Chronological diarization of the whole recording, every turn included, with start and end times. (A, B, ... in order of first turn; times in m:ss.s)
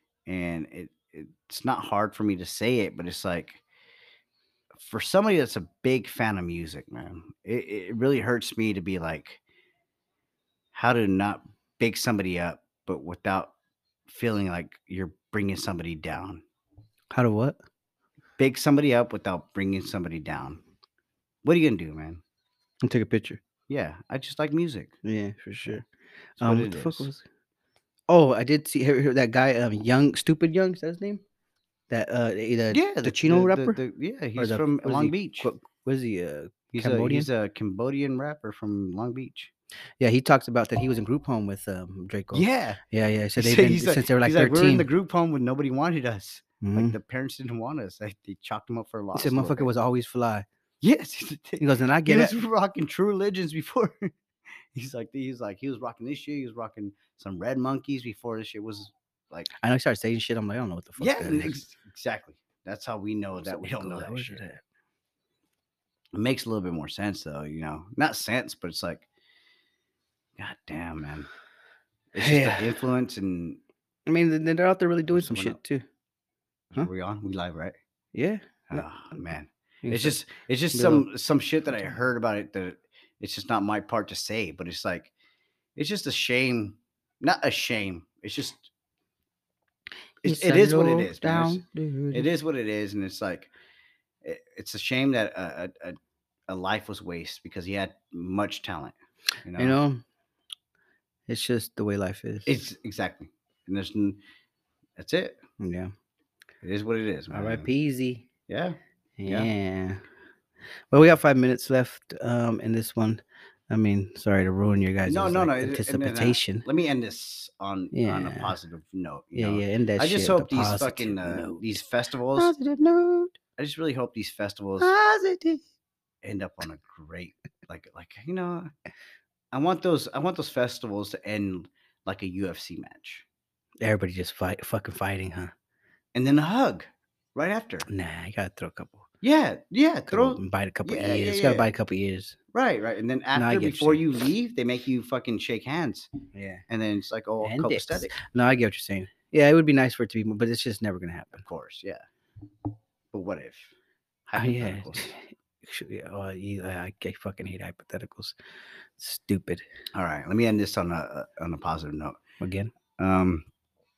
0:00.2-0:03.6 A
0:04.7-0:09.4 A
0:10.7-0:13.5 A
0:14.1-0:16.4 A
0:17.1-0:17.6 B
0:18.4-0:20.6 A
0:21.4-0:22.2 A
0:22.8-0:23.4 B
0:23.7-0:24.9 A
0:25.0-0:25.8 B
0:26.4-0:27.1 A
0:26.4-0:27.2 B
0:28.1-0:31.2 B
0:31.9-0:33.8 B
0:32.7-0:35.5 A
0:34.4-0:37.3 B
0:36.7-0:39.5 A
0:40.0-0:44.9 B
0:42.3-0:42.8 A
0:43.4-0:49.7 A
0:46.6-0:47.0 B
0:49.1-0:50.4 B
0:50.8-0:54.1 A
0:51.6-0:52.4 B
0:54.7-0:59.5 A
0:59.6-1:01.6 B
1:01.0-1:04.4 A
1:03.4-1:04.6 B
1:06.1-1:09.0 A
1:10.4-1:11.3 A
1:12.1-1:13.6 A
1:12.2-1:12.8 B
1:14.1-1:15.8 B
1:15.1-1:15.6 A
1:16.7-1:17.8 A
1:18.1-1:19.2 B
1:18.7-1:25.1 A
1:19.8-1:20.2 B
1:20.7-1:21.1 B
1:25.8-1:28.7 A
1:30.2-1:32.3 B
1:30.2-1:33.5 A
1:34.2-1:39.8 A
1:39.6-1:40.0 B
1:41.3-1:42.6 B
1:42.4-1:44.2 A
1:45.0-1:45.4 A
1:45.6-1:45.9 B
1:46.6-1:47.7 A
1:47.3-1:48.3 B
1:48.5-1:49.5 A
1:49.2-1:50.0 B
1:50.9-1:56.6 B
1:55.1-2:02.5 A
1:57.9-1:58.5 B
1:59.4-2:01.8 B
2:02.4-2:03.4 B
2:03.6-2:04.9 A
2:04.8-2:05.6 B
2:06.2-2:08.7 A
2:09.5-2:13.2 A
2:13.8-2:15.5 B
2:16.1-2:17.9 A
2:17.9-2:19.1 B
2:19.2-2:21.7 A
2:20.1-2:22.4 B
2:22.5-2:26.1 A
2:23.3-2:24.0 B
2:26.3-2:26.6 B
2:26.7-2:28.1 A
2:27.4-2:31.4 B
2:31.4-2:32.0 A
2:33.1-2:33.7 A
2:34.3-2:35.1 A
2:34.4-2:38.3 B
2:39.0-2:39.6 B
2:39.9-2:42.2 A
2:42.4-2:42.7 B
2:43.0-2:43.4 A